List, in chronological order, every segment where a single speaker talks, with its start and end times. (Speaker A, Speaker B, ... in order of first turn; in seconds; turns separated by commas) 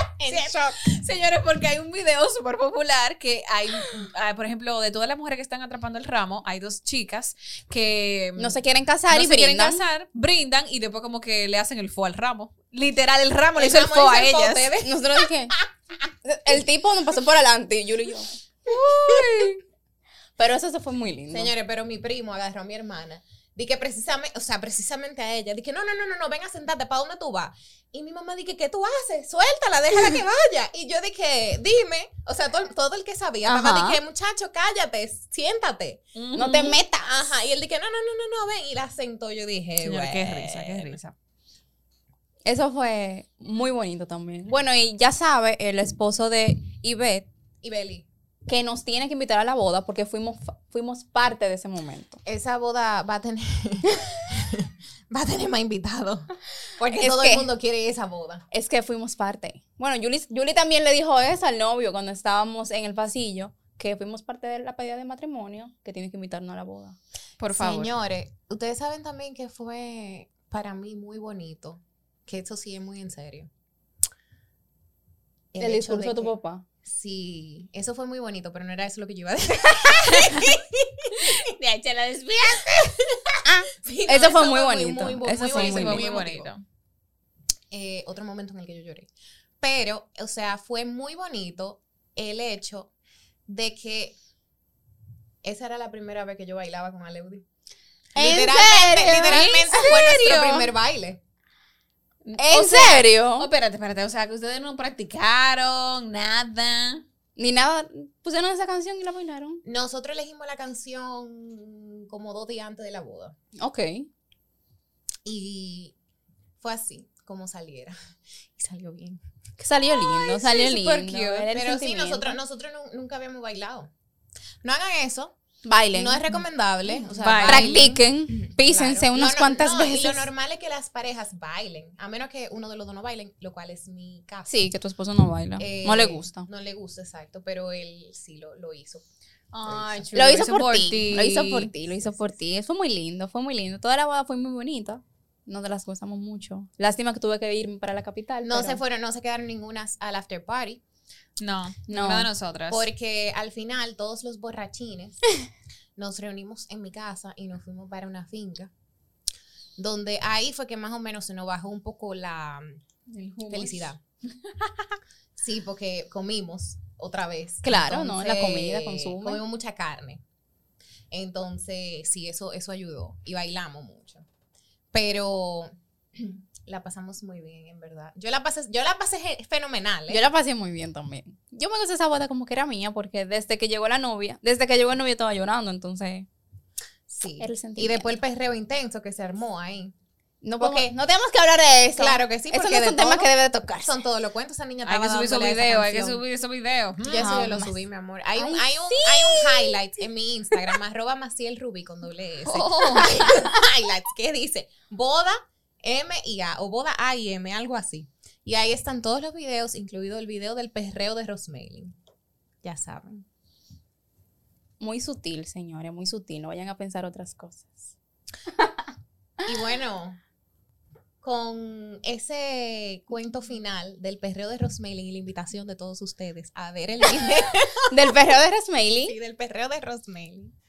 Speaker A: 0.2-0.8, Speaker B: 0.3-14.8, Speaker C: 8.4-9.8, Speaker A: 13.6-15.0, Speaker C: 14.8-15.6, Speaker C: 16.2-18.3, Speaker A: 18.7-19.5, Speaker C: 18.9-19.6, Speaker C: 20.4-21.5, Speaker A: 21.3-36.0, Speaker C: 33.5-34.0, Speaker B: 36.1-36.8, Speaker C: 36.4-37.3, Speaker A: 37.0-41.0, Speaker B: 39.8-41.1, Speaker C: 42.4-47.3, Speaker A: 47.6-48.1, Speaker C: 48.5-52.2, Speaker A: 52.2-58.4, Speaker C: 57.0-57.5, Speaker C: 58.5-67.0, Speaker B: 67.4-67.9, Speaker A: 67.5-73.5, Speaker A: 75.5-81.3, Speaker C: 75.6-76.7, Speaker B: 81.2-83.1, Speaker C: 83.4-86.1, Speaker A: 83.8-86.5, Speaker B: 85.5-86.6, Speaker A: 87.7-89.1, Speaker A: 89.6-92.9, Speaker A: 93.5-94.2, Speaker A: 95.4-97.4, Speaker C: 98.1-100.7, Speaker A: 98.2-101.2, Speaker B: 102.2-107.0, Speaker C: 102.4-103.5, Speaker C: 107.4-109.6, Speaker A: 109.6-113.4, Speaker C: 113.6-114.1, Speaker A: 115.2-115.9, Speaker A: 116.6-118.0, Speaker A: 118.6-119.2, Speaker C: 119.6-122.4, Speaker B: 120.2-121.5, Speaker A: 121.5-123.9, Speaker A: 124.6-125.4, Speaker C: 125.6-126.2, Speaker A: 125.9-134.5, Speaker B: 127.2-127.8, Speaker C: 127.4-130.3, Speaker C: 134.4-136.5, Speaker A: 135.6-139.1, Speaker B: 139.5-141.7, Speaker A: 139.6-140.1, Speaker C: 140.1-148.8, Speaker A: 148.4-150.8, Speaker B: 151.4-152.9, Speaker C: 151.9-152.3, Speaker A: 152.7-155.2, Speaker A: 155.9-158.7, Speaker A: 159.8-162.8, Speaker B: 163.1-164.7, Speaker A: 163.5-164.0, Speaker A: 165.4-170.2, Speaker C: 167.6-169.4, Speaker A: 171.1-174.3, Speaker A: 174.9-180.2, Speaker C: 180.1-186.3, Speaker A: 187.1-189.9, Speaker C: 187.4-188.2, Speaker C: 190.4-193.9, Speaker A: 190.6-190.9, Speaker A: 191.9-196.2, Speaker B: 194.8-197.3, Speaker A: 197.0-211.9, Speaker C: 197.1-197.8, Speaker C: 198.4-199.8, Speaker B: 202.4-203.3, Speaker A: 212.6-213.3, Speaker C: 214.8-217.9, Speaker A: 219.4-220.2, Speaker A: 221.2-228.0, Speaker C: 227.9-229.2, Speaker A: 229.0-230.5